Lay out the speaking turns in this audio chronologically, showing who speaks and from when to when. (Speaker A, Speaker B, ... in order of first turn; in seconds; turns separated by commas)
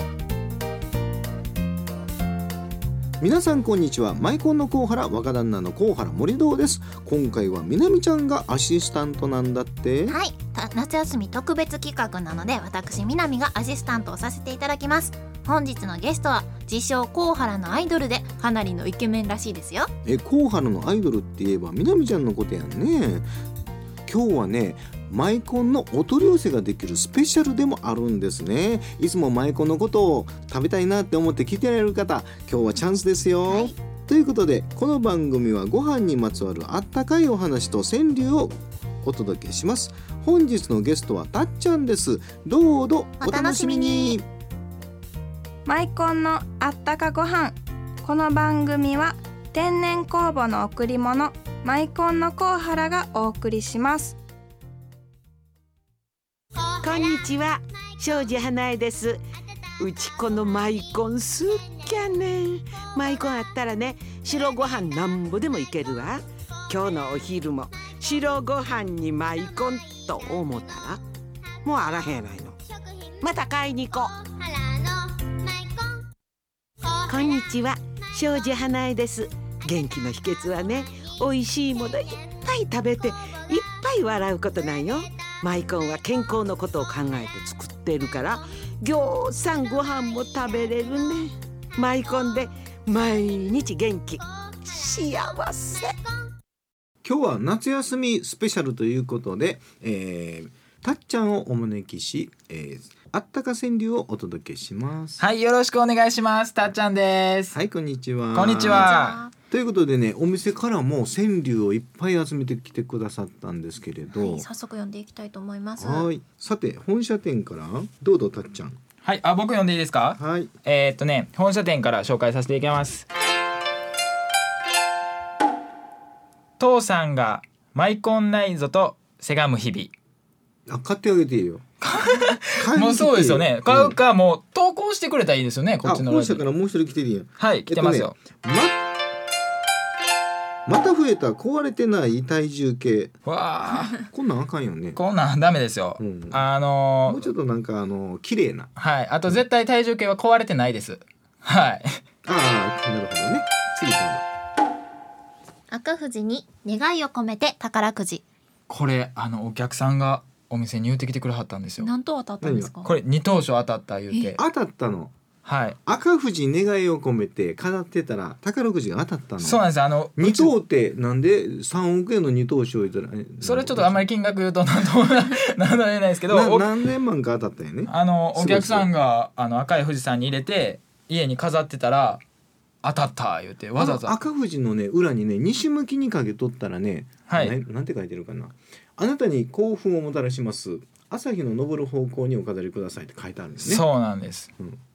Speaker A: 3.2-10.2, Speaker B: 10.1-19.9, Speaker A: 20.1-23.3, Speaker A: 24.1-44.2, Speaker B: 33.5-33.7, Speaker B: 43.2-44.2, Speaker C: 45.7-54.2, Speaker D: 56.7-59.2, Speaker D: 59.8-71.0, Speaker D: 71.6-72.6, Speaker D: 73.2-74.7, Speaker D: 77.0-96.0, Speaker A: 97.0-105.2, Speaker E: 105.2-107.5, Speaker A: 107.5-108.9, Speaker E: 108.3-109.2, Speaker B: 108.7-109.3, Speaker A: 109.5-114.5, Speaker B: 114.2-116.1, Speaker A: 115.8-118.8, Speaker E: 119.0-123.1, Speaker A: 120.2-120.5, Speaker E: 126.6-129.9, Speaker A: 130.7-131.6, Speaker E: 131.8-136.5, Speaker A: 132.5-134.0, Speaker A: 135.8-138.8, Speaker E: 137.4-138.2, Speaker A: 140.7-143.1, Speaker E: 143.3-144.1, Speaker A: 144.0-145.0, Speaker E: 144.9-147.3, Speaker A: 146.0-146.4, Speaker A: 147.1-148.7, Speaker E: 148.8-152.0, Speaker A: 152.2-154.2, Speaker B: 155.7-158.2, Speaker E: 158.7-161.9, Speaker B: 161.8-162.9, Speaker A: 162.4-162.7, Speaker E: 162.8-164.4, Speaker A: 164.3-165.1, Speaker E: 165.4-165.8, Speaker A: 165.9-169.6, Speaker E: 169.4-170.5, Speaker A: 170.2-174.0, Speaker E: 173.4-176.7, Speaker A: 176.3-178.9, Speaker E: 177.9-182.2, Speaker E: 182.8-184.1, Speaker A: 183.8-193.8, Speaker E: 187.3-187.5, Speaker E: 193.6-194.5